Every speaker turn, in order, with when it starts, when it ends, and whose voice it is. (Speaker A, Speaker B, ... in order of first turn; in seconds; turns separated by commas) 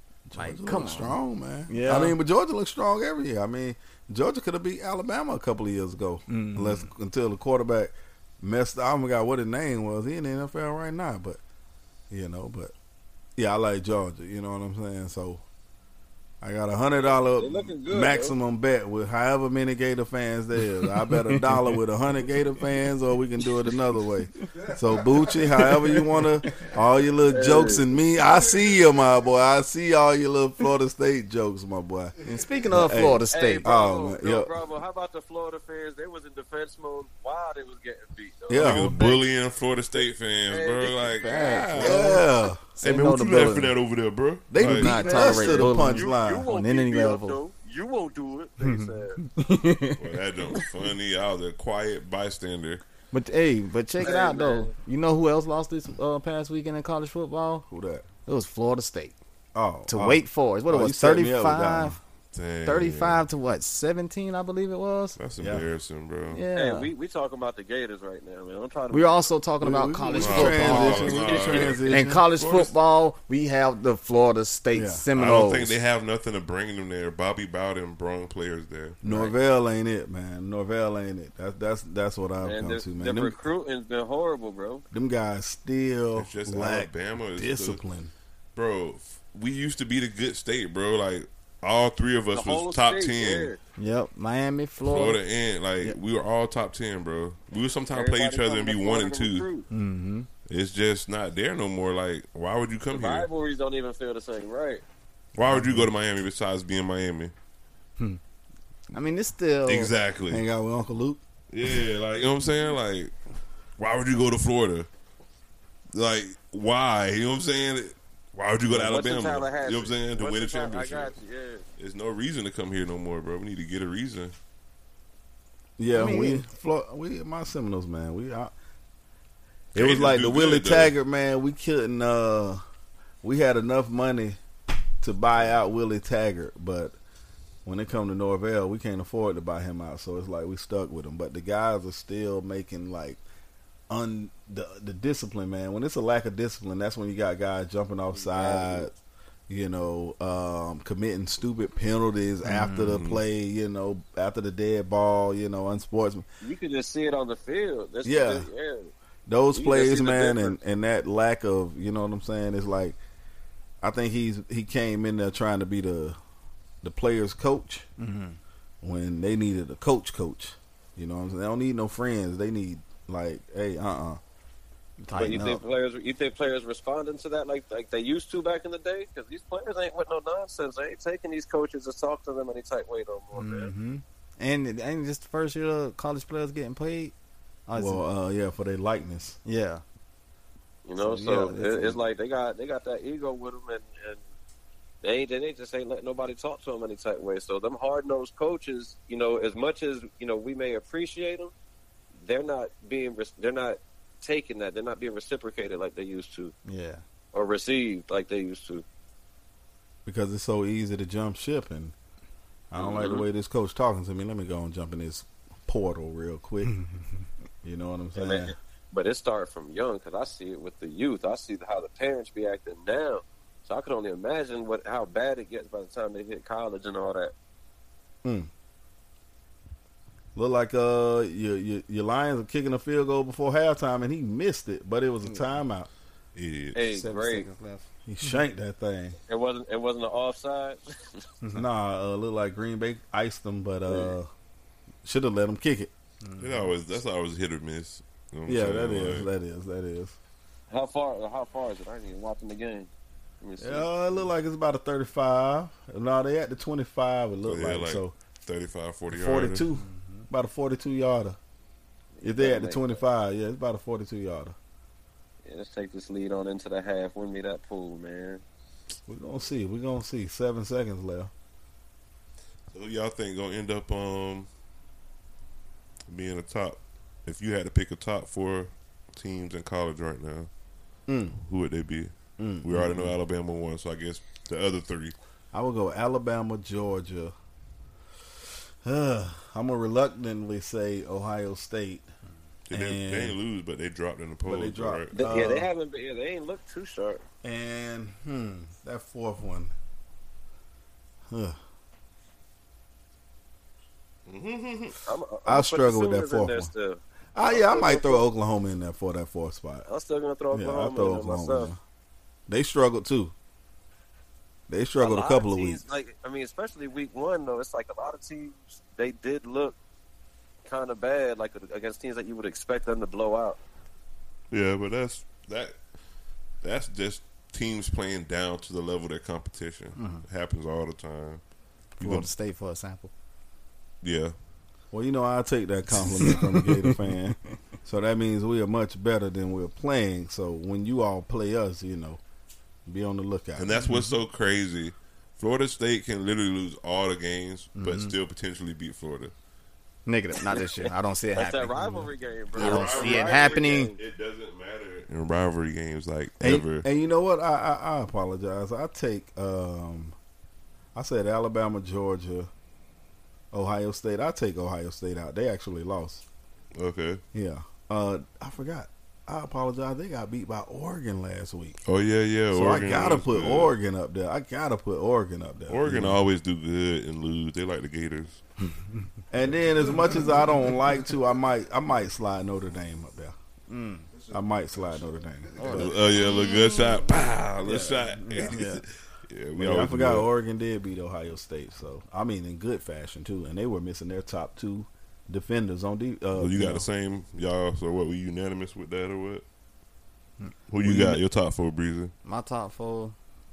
Speaker A: 0.3-11.4, Speaker B: 0.3-2.2, Speaker B: 6.3-6.9, Speaker A: 12.1-12.7, Speaker A: 13.4-15.4, Speaker A: 16.4-32.1, Speaker C: 16.9-18.3, Speaker B: 20.7-21.8, Speaker B: 25.2-26.7, Speaker C: 27.3-27.9, Speaker B: 32.2-33.7, Speaker A: 32.7-34.5, Speaker C: 33.3-39.2, Speaker A: 38.5-39.0, Speaker D: 38.5-42.2, Speaker B: 38.6-39.1, Speaker C: 39.9-41.5, Speaker B: 41.2-43.8, Speaker A: 41.8-42.6, Speaker D: 42.8-45.1, Speaker A: 44.5-46.5, Speaker B: 44.6-47.4, Speaker C: 45.1-49.2, Speaker B: 48.6-50.7, Speaker D: 50.0-52.8, Speaker B: 53.1-57.6, Speaker C: 54.0-54.7, Speaker A: 57.7-58.0, Speaker B: 58.2-59.1, Speaker A: 59.5-62.0, Speaker B: 59.9-62.0, Speaker D: 62.3-63.2, Speaker B: 62.6-65.2, Speaker D: 65.2-66.4, Speaker A: 65.4-65.7, Speaker B: 66.3-66.9, Speaker C: 66.5-69.2, Speaker B: 68.9-75.7, Speaker A: 69.6-72.2, Speaker D: 70.2-72.7, Speaker C: 71.1-71.7, Speaker A: 74.7-75.0, Speaker D: 75.1-79.0, Speaker A: 79.0-83.4, Speaker B: 79.0-79.3, Speaker C: 82.4-84.8, Speaker A: 84.9-88.1, Speaker D: 86.1-87.8, Speaker D: 88.5-93.5, Speaker C: 92.3-93.6, Speaker B: 93.8-95.2, Speaker D: 94.8-99.5, Speaker C: 97.9-99.7, Speaker B: 99.7-100.3, Speaker D: 100.5-103.3, Speaker C: 102.9-104.8, Speaker D: 105.3-107.3, Speaker B: 105.5-105.9, Speaker B: 108.9-109.9, Speaker D: 109.7-110.4, Speaker A: 110.3-111.2, Speaker D: 111.5-113.1, Speaker D: 113.8-114.9, Speaker D: 115.9-121.1, Speaker C: 118.7-121.7, Speaker D: 121.8-124.3, Speaker A: 125.8-128.5, Speaker B: 125.9-126.5, Speaker A: 129.7-132.6, Speaker D: 129.7-130.9, Speaker A: 133.2-134.4, Speaker A: 135.0-136.9, Speaker A: 137.6-143.2, Speaker A: 143.9-148.9, Speaker C: 148.1-148.9, Speaker A: 149.5-156.2, Speaker B: 152.4-153.0, Speaker D: 152.9-153.2, Speaker C: 156.4-158.9, Speaker A: 158.0-158.5, Speaker A: 159.3-163.0, Speaker C: 159.5-160.6, Speaker A: 163.8-166.2, Speaker A: 166.8-167.8, Speaker B: 168.0-168.4, Speaker A: 168.8-174.2, Speaker B: 175.0-175.6, Speaker C: 175.1-183.7, Speaker B: 183.3-187.1, Speaker B: 187.7-188.0, Speaker A: 187.7-189.4, Speaker B: 189.4-189.8, Speaker C: 190.8-194.2, Speaker B: 191.0-192.0, Speaker C: 195.0-201.5, Speaker C: 202.2-206.5, Speaker B: 206.7-207.0, Speaker C: 207.3-208.8, Speaker A: 210.0-211.9, Speaker A: 212.7-216.7, Speaker C: 212.8-213.2, Speaker B: 216.6-217.0, Speaker A: 217.6-218.5, Speaker C: 218.2-227.3, Speaker A: 228.2-228.5, Speaker A: 230.3-235.9, Speaker B: 235.2-235.5, Speaker D: 236.3-237.0, Speaker C: 236.7-237.5, Speaker B: 236.9-238.4, Speaker A: 238.0-239.2, Speaker C: 239.3-241.2, Speaker A: 241.5-244.3, Speaker A: 245.0-245.9, Speaker B: 246.2-246.7, Speaker D: 246.4-249.3, Speaker A: 248.4-250.2, Speaker C: 250.7-252.9, Speaker C: 253.4-253.9, Speaker A: 253.6-258.1, Speaker D: 257.4-259.6, Speaker A: 259.1-261.4, Speaker B: 259.7-260.3, Speaker C: 262.1-263.0, Speaker A: 262.2-264.6, Speaker C: 265.4-268.4, Speaker A: 269.1-271.3, Speaker D: 272.7-274.5, Speaker D: 276.1-280.5, Speaker A: 281.1-281.4, Speaker D: 281.4-285.1, Speaker A: 282.4-283.1, Speaker A: 285.5-287.3, Speaker A: 288.8-292.1, Speaker D: 292.7-295.3, Speaker A: 292.7-293.4, Speaker A: 294.4-295.7, Speaker C: 295.1-297.2, Speaker A: 297.4-299.7, Speaker A: 301.3-301.6, Speaker D: 304.3-305.0, Speaker C: 305.0-308.2, Speaker A: 305.4-306.7, Speaker A: 307.3-309.9, Speaker C: 309.9-311.7, Speaker A: 310.5-311.8, Speaker A: 312.5-313.3, Speaker A: 314.7-315.8, Speaker C: 315.0-319.8, Speaker C: 320.6-323.6, Speaker D: 324.5-325.8, Speaker D: 326.6-331.4, Speaker B: 329.9-330.2, Speaker B: 332.0-333.1, Speaker D: 332.0-332.3, Speaker D: 334.0-334.3, Speaker A: 334.9-342.2, Speaker B: 335.9-337.1, Speaker A: 342.9-343.8, Speaker D: 343.6-349.3, Speaker B: 343.8-344.1, Speaker B: 347.8-348.1, Speaker B: 350.1-353.9, Speaker C: 350.5-354.0, Speaker D: 352.5-356.9, Speaker A: 356.4-360.1, Speaker A: 360.9-362.5, Speaker A: 363.5-366.2, Speaker D: 366.7-367.2, Speaker A: 367.3-371.8, Speaker D: 371.9-373.7, Speaker A: 372.5-376.2, Speaker D: 375.7-378.4, Speaker A: 379.3-383.3, Speaker B: 379.8-380.2, Speaker B: 383.7-384.1, Speaker D: 384.1-390.3, Speaker A: 384.3-386.0, Speaker B: 385.5-387.0, Speaker B: 387.6-388.8, Speaker A: 389.6-396.9, Speaker D: 396.3-399.4, Speaker D: 400.7-402.1, Speaker A: 400.8-401.2, Speaker B: 402.2-403.1